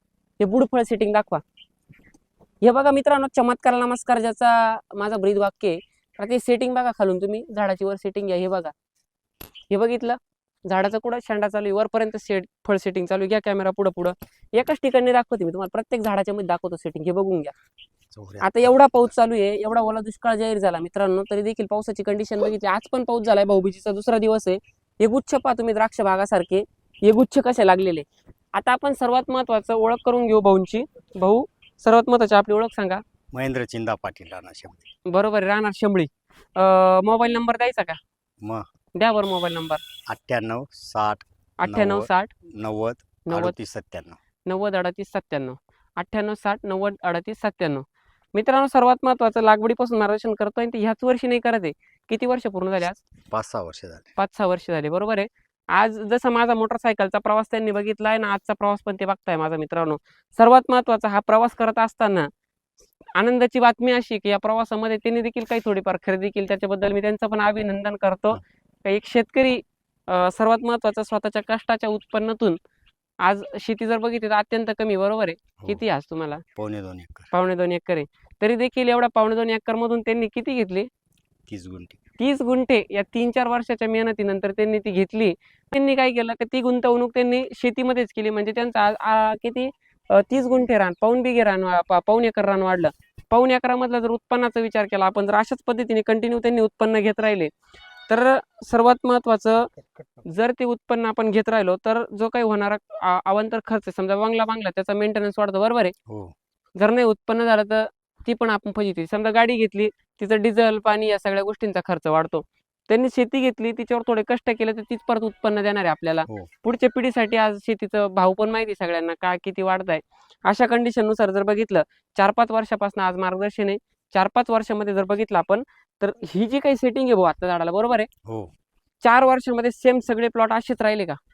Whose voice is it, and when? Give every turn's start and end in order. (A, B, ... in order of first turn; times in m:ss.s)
0:00.4-0:01.4 A
0:02.6-0:08.7 A
0:09.7-0:17.5 A
0:18.1-0:19.1 B
0:18.4-0:33.0 A
0:33.3-0:34.9 B
0:35.1-0:38.0 A
0:39.0-0:39.8 A
0:40.1-0:44.2 B
0:41.6-0:42.3 A
0:43.3-0:43.6 A
0:44.4-0:53.0 A
0:53.3-0:54.1 B
0:54.2-1:02.3 A
1:03.2-1:12.6 A
1:13.2-1:16.4 A
1:16.6-1:17.3 B
1:17.3-1:20.9 A
1:21.5-1:22.0 B
1:22.2-1:37.5 A
1:38.1-1:39.7 A
1:40.2-1:45.9 A
1:46.1-1:46.3 B
1:46.8-2:08.1 A
2:08.2-2:08.5 B
2:09.0-2:11.2 A